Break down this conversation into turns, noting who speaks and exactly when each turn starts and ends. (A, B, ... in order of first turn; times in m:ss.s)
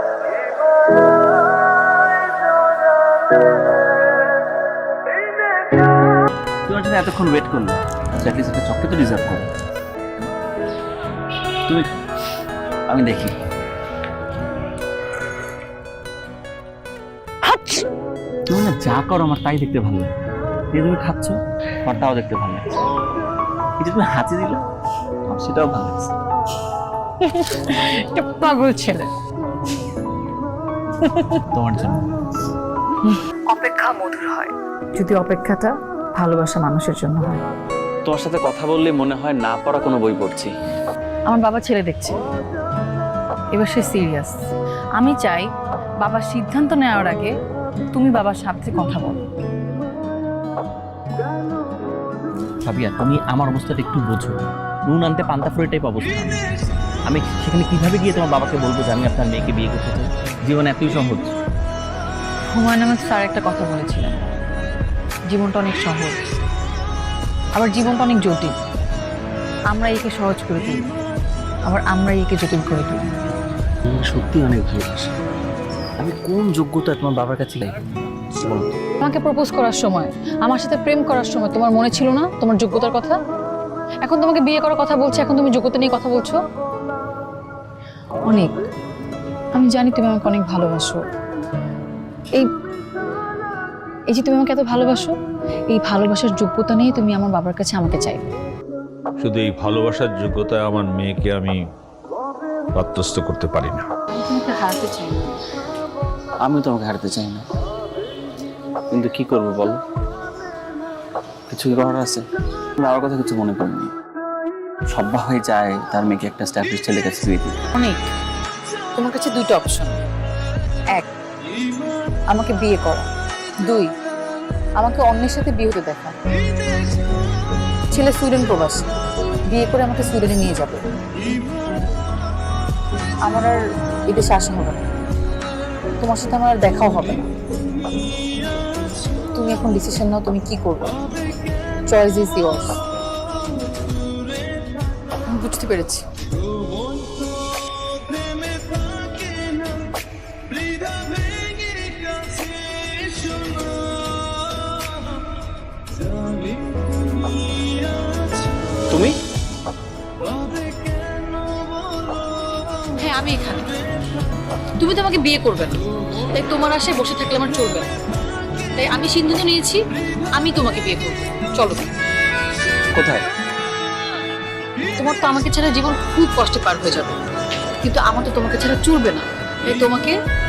0:06.7-0:09.5 A
0:12.9-0:13.3 A
0:17.4-0:17.8 B
0:18.5-0:20.1 A
0:20.7-0:22.9 A
0:23.8-0:24.6 A
0:25.3-0:26.1 A
0:27.2-0:29.1 B
0:31.0-0:31.4 B
0:31.5-0:32.1 A
0:33.0-0:37.4 B
0:38.0-0:40.5 A
0:41.3-0:42.2 B
0:43.5-0:45.5 B
0:46.0-0:47.3 B
0:47.9-0:49.2 B
0:52.6-1:01.4 A
1:02.5-1:04.3 B
1:05.3-1:06.2 B
1:07.6-1:08.5 B
1:09.7-1:10.9 B
1:11.7-1:13.1 B
1:13.9-1:15.1 A
1:16.0-1:17.8 A
1:18.3-1:18.7 A
1:19.0-1:23.2 B
1:24.0-1:26.4 B
1:28.3-1:28.5 B
1:29.6-1:31.0 B
1:34.1-1:35.2 B
1:35.7-1:38.3 B
1:39.2-1:41.6 C
1:42.8-1:43.9 C
1:44.1-1:45.2 B
1:46.4-1:47.5 A
1:48.9-1:49.8 A
1:51.5-1:52.2 A
1:52.8-1:53.9 A
1:54.9-1:57.6 A
1:57.7-1:58.1 B
1:58.9-2:00.0 B
2:02.3-2:03.1 B
2:04.8-2:06.2 B
2:07.9-2:08.9 B
2:09.5-2:10.8 B
2:13.2-2:14.8 B
2:16.0-2:17.3 B
2:19.3-2:20.9 B
2:21.9-2:22.8 B
2:25.3-2:26.1 B
2:38.9-2:39.2 A
2:43.0-2:43.8 B
2:44.8-2:47.9 B
2:48.8-2:49.8 B
2:50.3-2:51.9 B
2:53.0-2:53.3 A
2:55.0-2:57.2 B
2:57.8-3:00.2 B